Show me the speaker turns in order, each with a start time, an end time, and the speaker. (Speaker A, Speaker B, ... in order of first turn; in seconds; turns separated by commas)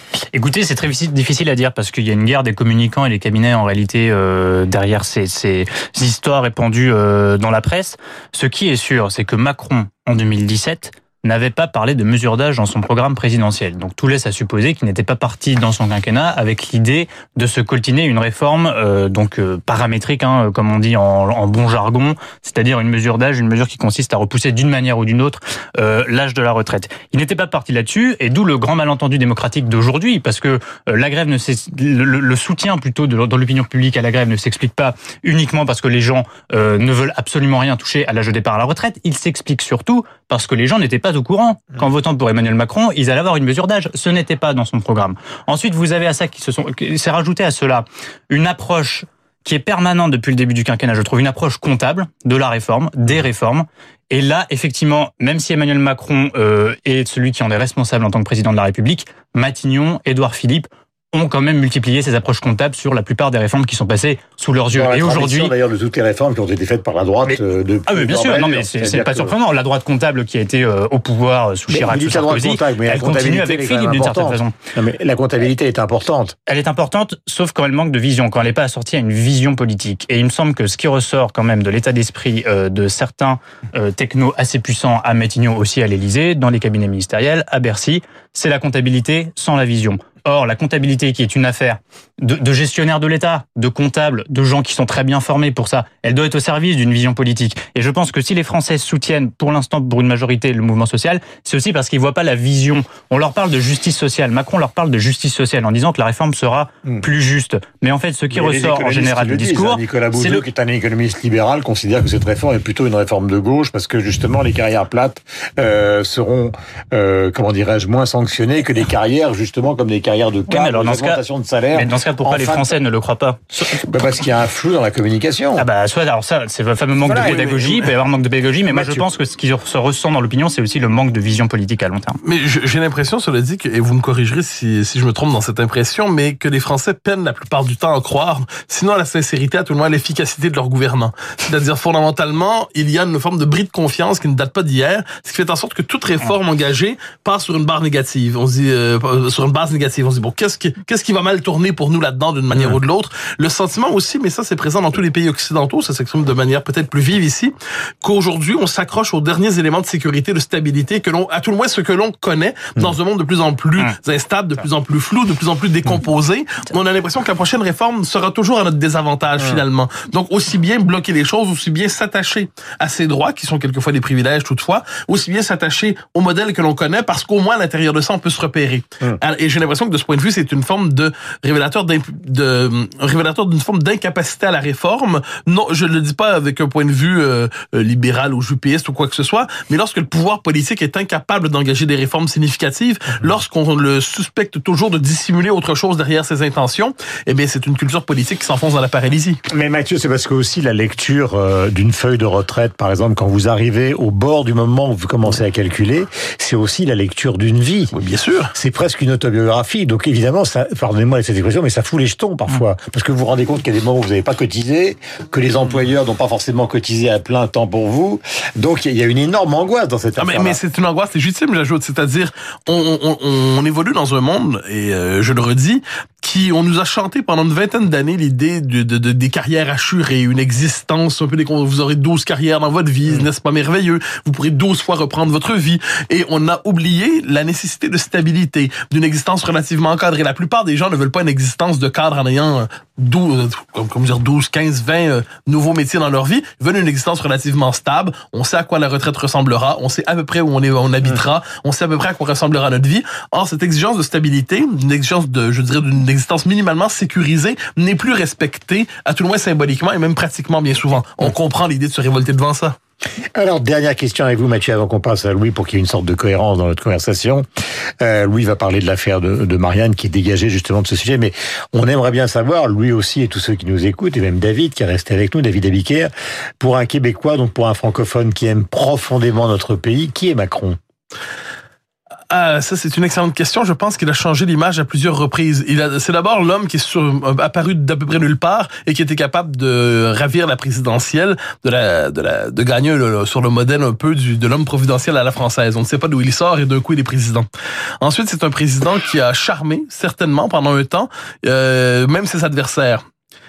Speaker A: 0.3-65.5, Speaker B: 64.7-69.3, Speaker A: 67.2-74.5, Speaker B: 71.7-76.3, Speaker A: 76.5-110.4, Speaker B: 108.3-122.8, Speaker A: 120.5-121.2, Speaker A: 121.7-123.7, Speaker B: 123.7-125.7, Speaker A: 125.6-132.2, Speaker B: 127.0-127.9, Speaker B: 128.7-129.1, Speaker C: 132.2-157.5, Speaker C: 158.0-199.4, Speaker B: 199.5-207.9, Speaker C: 207.9-208.5, Speaker B: 208.5-220.6, Speaker C: 220.2-262.8, Speaker B: 263.3-267.4, Speaker B: 268.0-280.8, Speaker C: 282.3-297.5, Speaker C: 298.0-303.0